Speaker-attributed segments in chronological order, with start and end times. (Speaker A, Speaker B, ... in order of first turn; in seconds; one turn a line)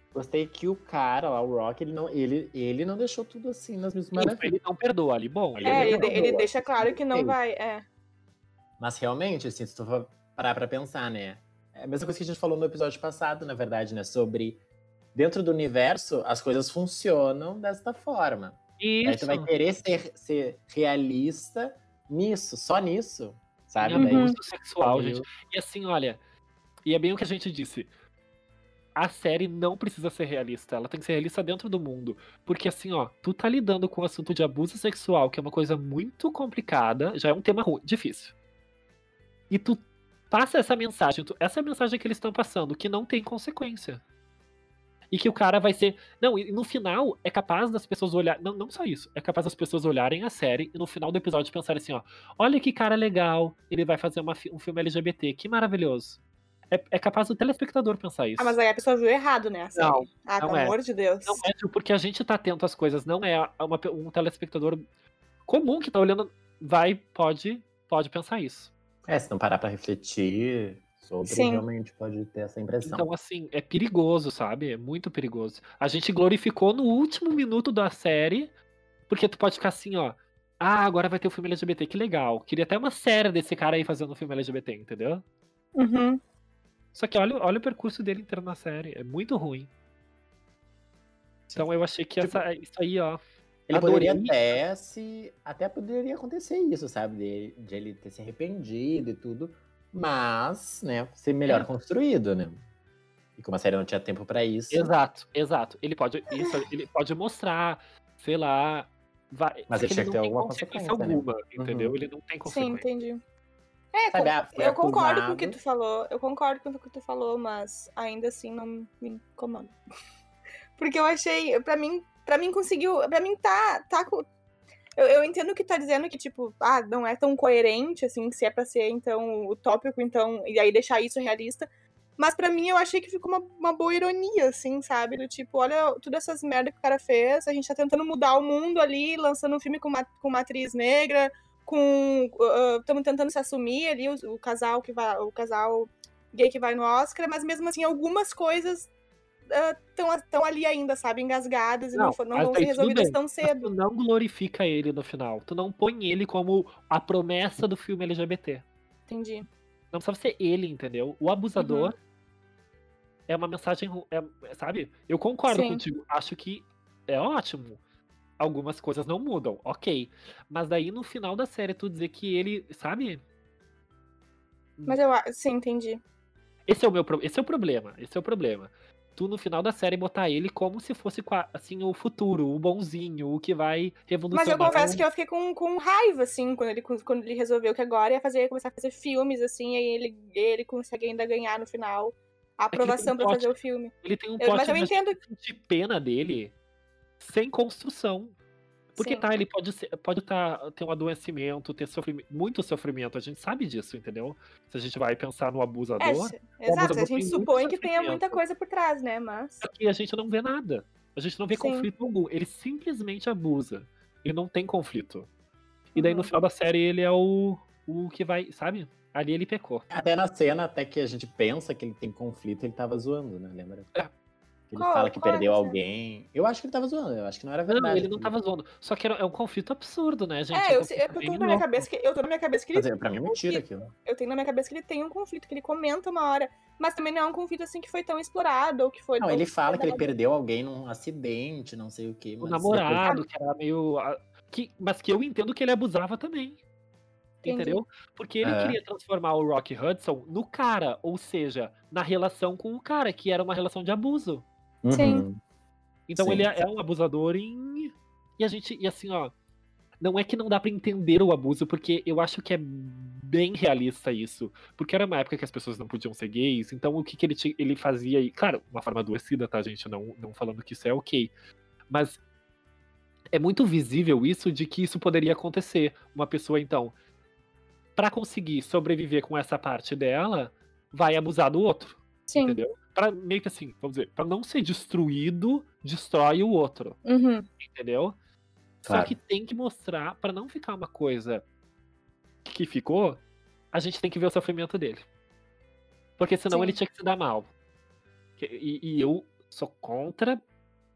Speaker A: 0.1-4.5
Speaker B: 4.2-6.2
Speaker A: 5.5-7.4
Speaker C: 5.7-7.8
Speaker A: 8.8-14.6
Speaker A: 15.1-25.3
Speaker B: 18.8-19.5
Speaker B: 23.8-26.2
Speaker C: 24.0-24.4
Speaker B: 26.9-27.9
Speaker B: 28.9-38.3
Speaker B: 39.5-44.0
Speaker B: 45.1-56.2
Speaker B: 56.7-58.6
Speaker C: 58.4-61.4
Speaker B: 59.8-64.8
Speaker B: 65.5-68.7
Speaker A: 69.1-73.1
Speaker C: 71.3-71.7
Speaker B: 72.8-78.5
Speaker B: 79.1-85.2
Speaker C: 85.8-86.2
Speaker B: 86.9-89.7
Speaker A: 91.5-92.4
Speaker B: 91.5-94.6
Speaker A: 93.7-102.6
Speaker A: 103.4-104.9
Speaker B: 104.7-112.9
Speaker C: 106.3-106.6
Speaker A: 109.7-111.9
Speaker C: 112.5-113.2
Speaker C: 113.9-119.8
Speaker A: 114.1-115.6
Speaker C: 120.8-124.3
Speaker C: 125.0-131.7
Speaker C: 132.2-148.9
Speaker C: 149.5-153.7
Speaker B: 151.9-158.7
Speaker C: 159.1-159.5
Speaker B: 159.9-161.9
Speaker C: 161.6-161.9
Speaker B: 163.3-167.8
Speaker C: 165.5-165.8
Speaker B: 168.4-173.2
Speaker C: 174.9-176.0
Speaker B: 176.7-185.0
Speaker C: 184.3-195.2
Speaker B: 192.7-196.5
Speaker B: 197.2-198.3
Speaker B: 198.9-208.4
Speaker C: 199.0-199.2
Speaker C: 206.0-209.6
Speaker B: 209.6-215.3
Speaker C: 211.5-211.9
Speaker B: 215.9-219.8
Speaker C: 216.0-216.3
Speaker A: 219.9-223.9
Speaker A: 224.7-228.3
Speaker C: 224.8-225.8
Speaker B: 227.7-231.8
Speaker C: 230.5-240.1
Speaker A: 232.8-233.9
Speaker A: 239.2-243.1
Speaker B: 242.4-246.6
Speaker B: 247.4-254.5
Speaker C: 247.4-247.8
Speaker A: 248.4-248.8
Speaker A: 254.8-255.4
Speaker C: 254.9-255.2
Speaker B: 256.1-259.3
Speaker A: 256.2-256.6
Speaker B: 260.0-271.3
Speaker B: 271.9-272.2
Speaker B: 273.3-276.9
Speaker B: 278.0-287.0
Speaker C: 282.3-282.6
Speaker C: 287.1-287.5
Speaker B: 287.6-288.2
Speaker A: 288.9-289.1
Speaker B: 288.9-291.4
Speaker B: 292.4-295.1
Speaker B: 296.2-297.5
Speaker C: 296.5-296.8
Speaker B: 298.4-300.4